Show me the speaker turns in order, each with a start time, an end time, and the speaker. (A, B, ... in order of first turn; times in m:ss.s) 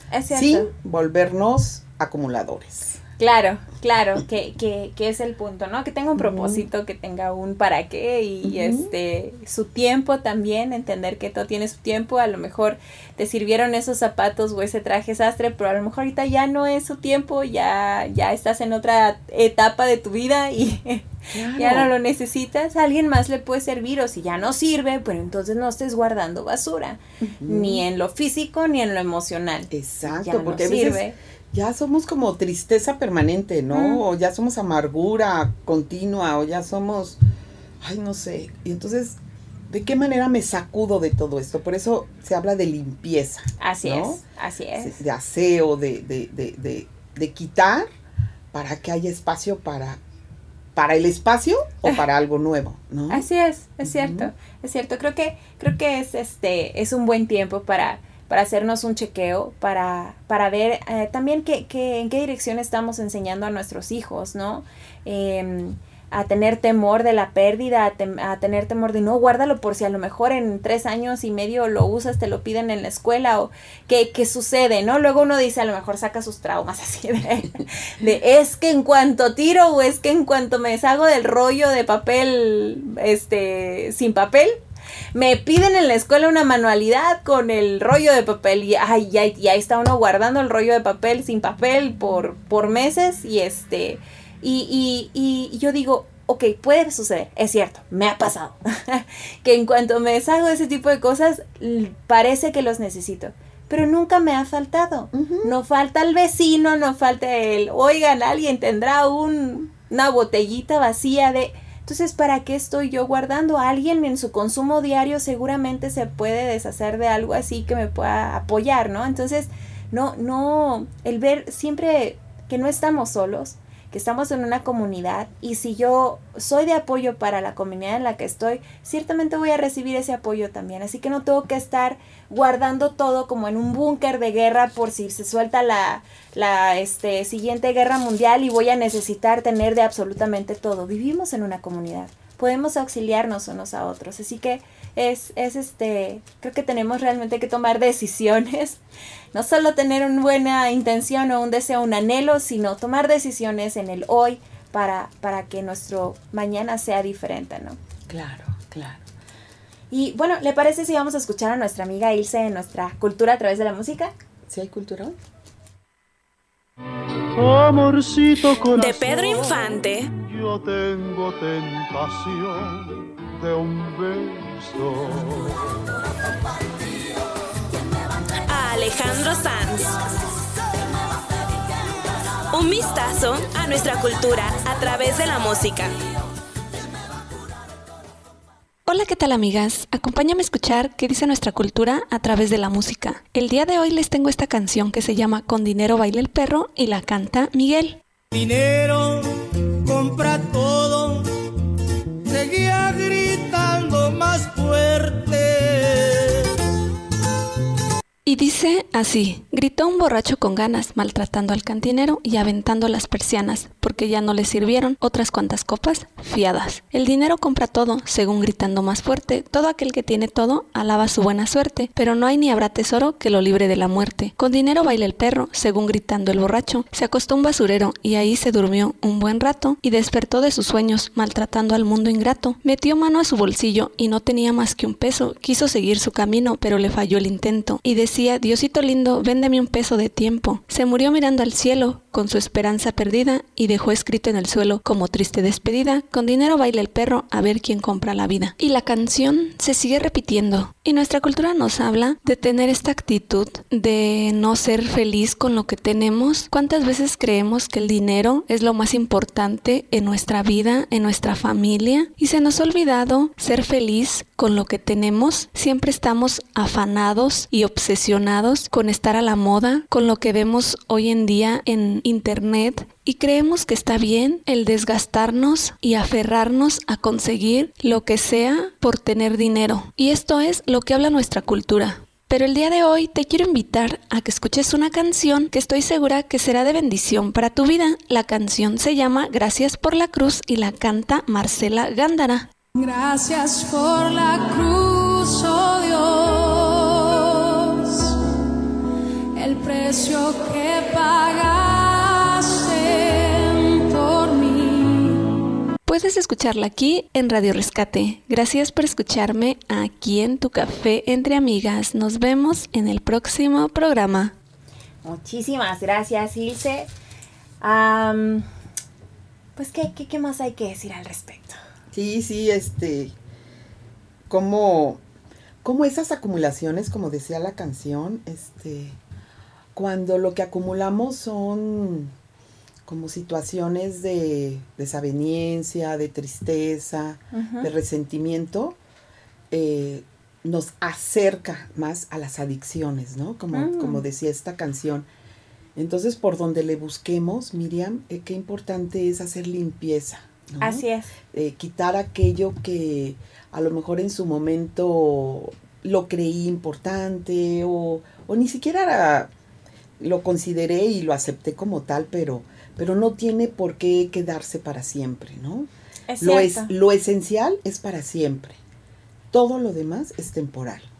0:00.1-0:00.7 A
0:00.3-0:03.0 B
0:03.2-0:31.2 A
0:06.2-0:06.7 B
0:08.4-0:08.9 B
0:21.3-0:21.9 B
0:27.2-0:27.8 B
0:29.7-0:37.2 B
0:33.7-0:34.0 A
0:37.8-0:39.2 B
0:39.7-0:44.2 B
0:43.6-0:45.0 A
0:44.8-0:47.9 B
0:48.5-0:50.0 B
0:50.8-0:53.3 B
0:53.1-1:24.6 A
0:53.8-0:54.3 B
1:25.1-2:28.8 A
1:45.1-1:45.5 B
2:29.3-2:37.8 A
2:38.1-2:39.0 B
2:39.9-2:44.1 A
2:44.5-2:45.2 B
2:47.4-2:55.6 C
2:48.7-2:50.1 D
2:58.5-3:00.0 D
3:02.5-3:05.9 D
3:08.9-3:18.0 E
3:18.3-3:21.4 F
3:22.3-3:26.5 F
3:28.2-4:52.5 E
4:52.8-4:58.2 G
4:59.4-5:05.3 G
5:05.9-5:14.3 E
5:15.0-5:16.9 A
5:17.6-5:18.5 A
5:19.6-5:21.6 A
5:21.9-5:23.1 B
5:24.3-5:25.0 B
5:25.6-5:29.0 B
5:29.7-5:32.1 B
5:32.9-5:38.8 B
5:37.3-5:37.7 A
5:39.5-5:45.1 B
5:43.5-5:44.0 A
5:45.8-5:59.3 B
5:50.6-5:51.1 A
6:00.0-6:05.7 B
6:06.1-6:06.7 A
6:06.2-6:08.6 B
6:09.3-6:10.9 B